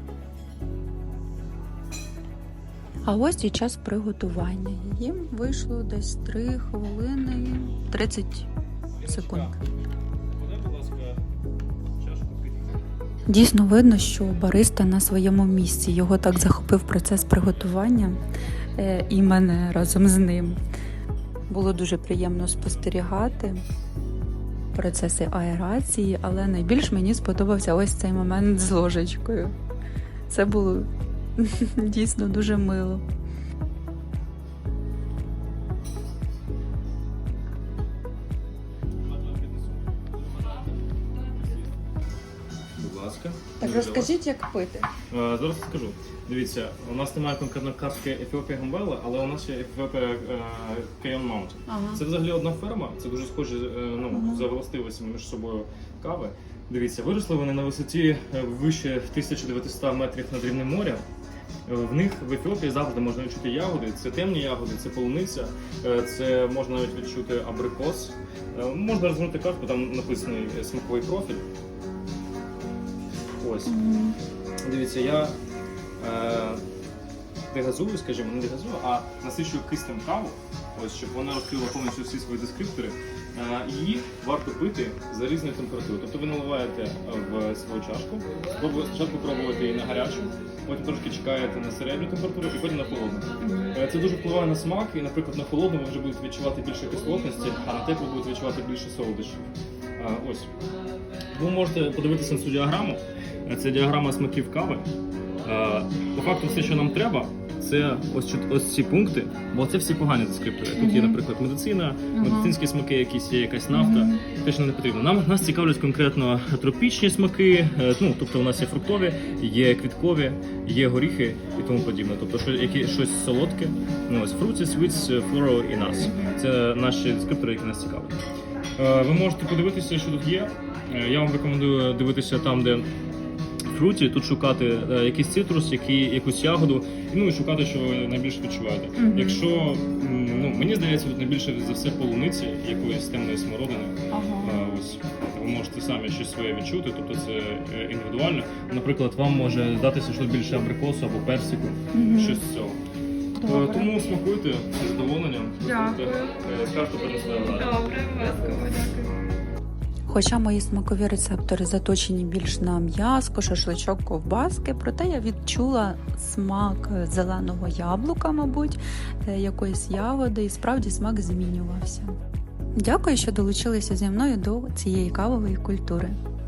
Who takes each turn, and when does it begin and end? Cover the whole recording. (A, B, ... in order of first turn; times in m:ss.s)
0:03.1-0:08.5 A
0:09.0-0:09.6 B
0:09.0-0:09.6 A
0:10.4-0:11.2 B
0:12.0-0:12.8 B
0:13.3-0:18.2 A
0:18.8-0:20.6 A
0:21.5-0:23.6 A
0:24.7-0:29.5 A
0:30.3-0:33.0 A
0:39.0-0:41.7 B
0:42.8-0:44.2 B
0:43.6-0:44.9 A
0:45.1-1:01.0 B
0:51.7-0:52.0 A
0:54.1-0:54.5 A
1:01.7-1:11.4 B
1:13.4-1:13.7 B
1:13.6-1:14.2 A
1:14.6-1:15.4 B
1:16.0-1:16.6 B
1:17.5-1:39.4 B
1:33.4-1:33.8 A
1:40.0-1:40.5 B
1:41.3-1:44.9 B
1:45.4-2:08.2 B
1:50.8-1:51.2 A
1:52.1-1:52.6 A
1:53.7-1:54.2 A
2:06.0-2:06.4 A
2:08.8-2:12.9 B
2:13.7-2:32.8 B
2:19.0-2:19.4 A
2:24.1-2:24.6 A
2:31.9-2:32.4 A
2:33.4-2:33.9 A
2:33.4-2:37.9 B
2:35.6-2:36.4 C
2:37.4-2:39.1 C
2:40.1-2:52.2 A
2:52.8-2:56.2 A